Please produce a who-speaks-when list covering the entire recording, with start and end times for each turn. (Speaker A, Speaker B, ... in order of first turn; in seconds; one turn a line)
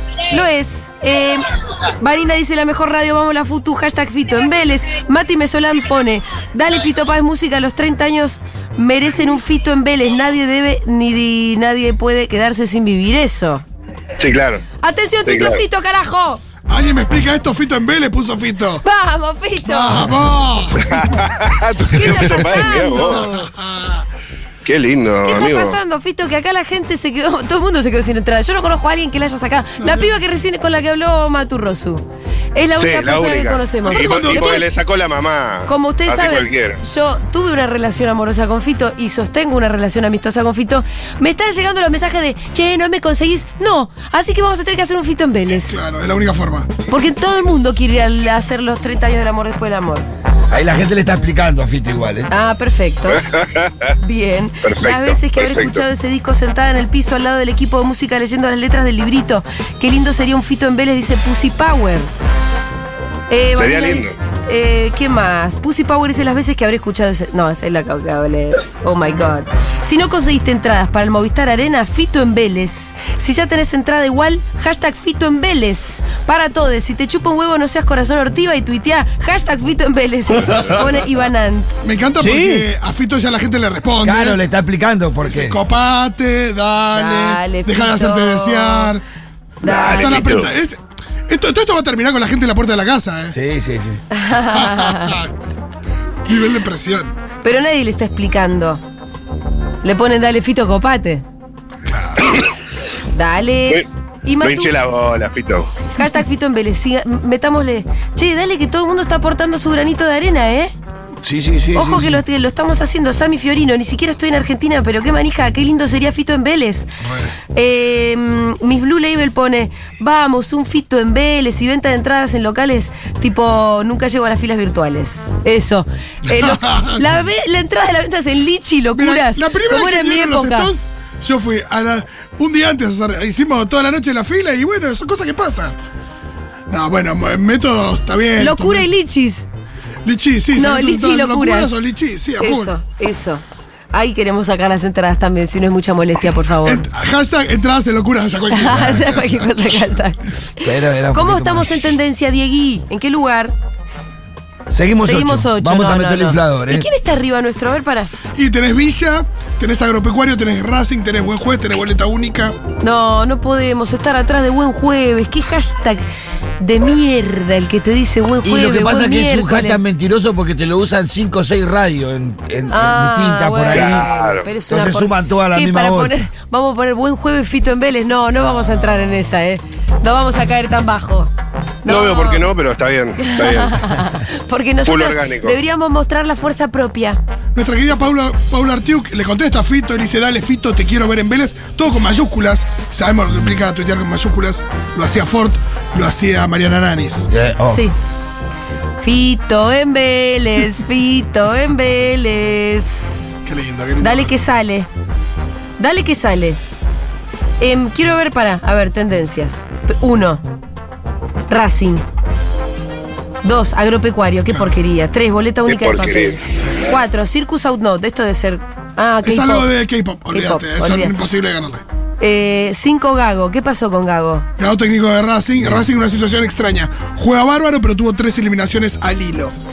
Speaker A: 0.3-13.6
Speaker B: 14.2-14.6
Speaker A: 14.8-16.4
Speaker B: 15.2-15.6
Speaker C: 16.7-18.8
Speaker A: 18.8-20.1
Speaker C: 19.6-20.9
Speaker B: 20.8-23.2
Speaker A: 21.9-23.5
Speaker C: 22.7-24.0
Speaker B: 24.6-25.8
Speaker A: 25.2-34.6
Speaker C: 29.8-30.1
Speaker B: 32.8-36.8
Speaker C: 33.8-34.7
Speaker A: 35.7-45.8
Speaker C: 45.6-46.7
Speaker A: 46.9-50.0
Speaker D: 50.5-52.3
Speaker A: 52.3-53.2
Speaker B: 53.1-53.9
Speaker A: 54.0-62.1
Speaker B: 54.6-55.8
Speaker A: 63.3-81.7
Speaker B: 63.5-64.1
Speaker B: 80.4-80.8
Speaker C: 81.8-84.4
Speaker D: 82.2-82.7
Speaker D: 84.0-85.6
Speaker C: 85.2-89.0
Speaker A: 86.9-88.9
Speaker A: 89.6-90.3
Speaker B: 89.6-90.5
Speaker C: 89.6-93.3
Speaker D: 93.3-94.0
Speaker A: 94.1-95.2
Speaker C: 94.4-95.3
Speaker C: 96.2-97.1
Speaker A: 97.4-98.8
Speaker A: 99.8-101.2
Speaker C: 101.8-102.3
Speaker A: 103.1-104.7
Speaker B: 104.4-105.7
Speaker A: 105.9-110.7
Speaker D: 111.2-112.2
Speaker A: 111.7-116.9
Speaker C: 117.0-117.3
Speaker A: 117.5-130.7
Speaker C: 126.3-127.0
Speaker C: 128.9-135.7
Speaker C: 136.7-138.9
Speaker A: 138.4-139.4
Speaker C: 140.0-142.7
Speaker A: 140.5-141.9
Speaker A: 142.4-146.9
Speaker C: 146.6-149.6
Speaker A: 148.5-153.5
Speaker D: 150.6-151.9
Speaker D: 154.7-156.9
Speaker A: 155.0-158.1
Speaker C: 158.3-162.5
Speaker A: 162.8-166.0
Speaker A: 166.6-169.8
Speaker D: 168.4-174.1
Speaker A: 172.7-181.3
Speaker B: 173.7-174.5
Speaker D: 174.7-176.3
Speaker A: 181.8-182.4
Speaker B: 181.8-184.0
Speaker A: 183.2-187.2
Speaker B: 184.8-185.6
Speaker C: 187.5-197.2
Speaker D: 197.3-197.8
Speaker A: 197.7-197.9
Speaker A: 199.0-203.3
Speaker C: 203.4-204.3
Speaker A: 204.0-204.9
Speaker A: 205.8-206.6
Speaker A: 207.6-210.4
Speaker A: 211.5-212.0
Speaker A: 213.4-219.7
Speaker B: 215.7-216.4
Speaker C: 219.2-221.8
Speaker A: 220.3-221.1
Speaker A: 222.2-224.4
Speaker C: 224.6-229.5